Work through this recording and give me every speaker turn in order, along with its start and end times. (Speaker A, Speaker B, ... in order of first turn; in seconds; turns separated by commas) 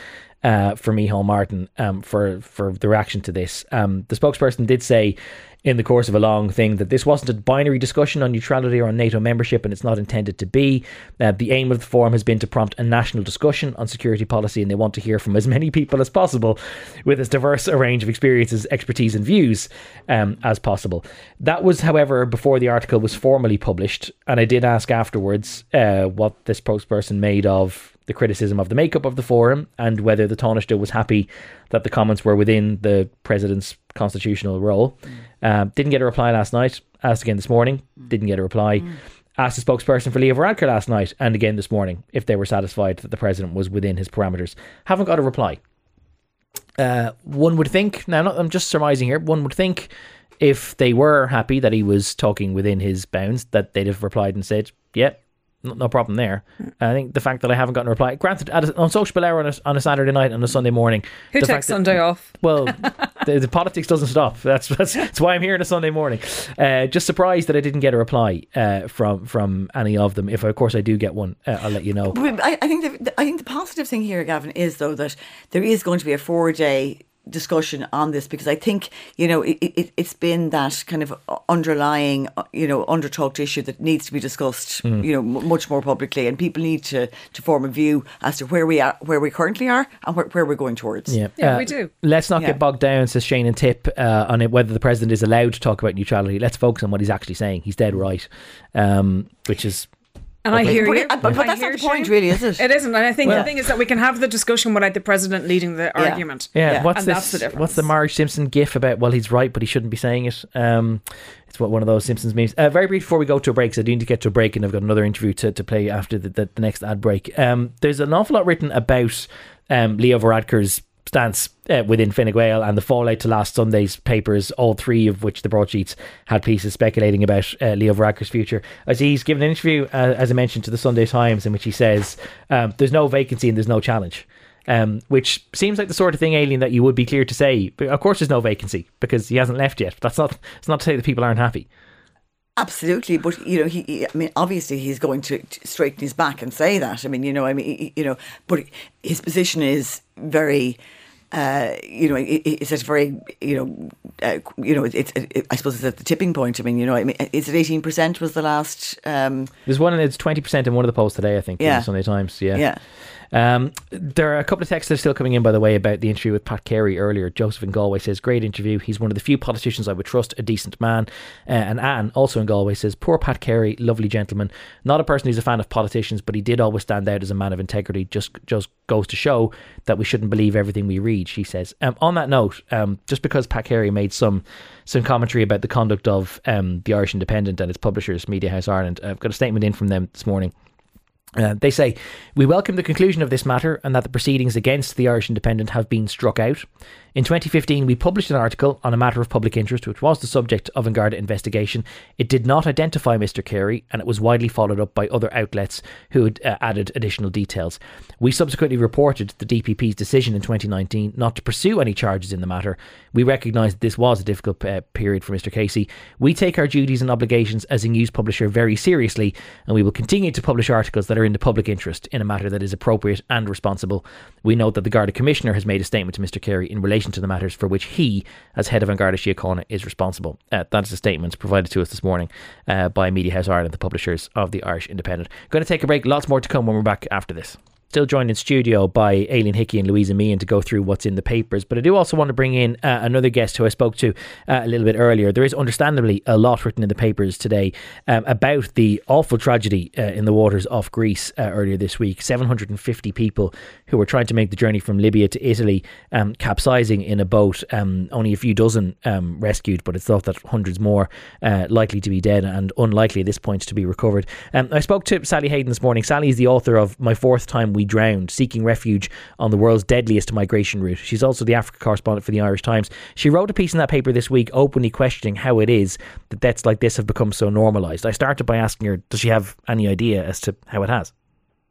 Speaker A: 0.4-45.6, Speaker A: 46.8-49.9, Speaker A: 50.4-61.9, Speaker B: 61.3-62.7, Speaker A: 62.4-72.2, Speaker C: 72.1-91.2, Speaker A: 91.1-99.9, Speaker B: 91.4-91.9, Speaker B: 100.4-107.9, Speaker A: 100.5-101.4, Speaker C: 100.6-102.7, Speaker C: 103.2-103.5, Speaker C: 106.0-106.9, Speaker A: 106.5-141.7, Speaker C: 142.6-150.8, Speaker C: 151.3-159.5, Speaker A: 159.7-162.6, Speaker C: 161.6-161.9, Speaker C: 162.5-162.8, Speaker A: 163.3-190.5, Speaker A: 191.4-281.1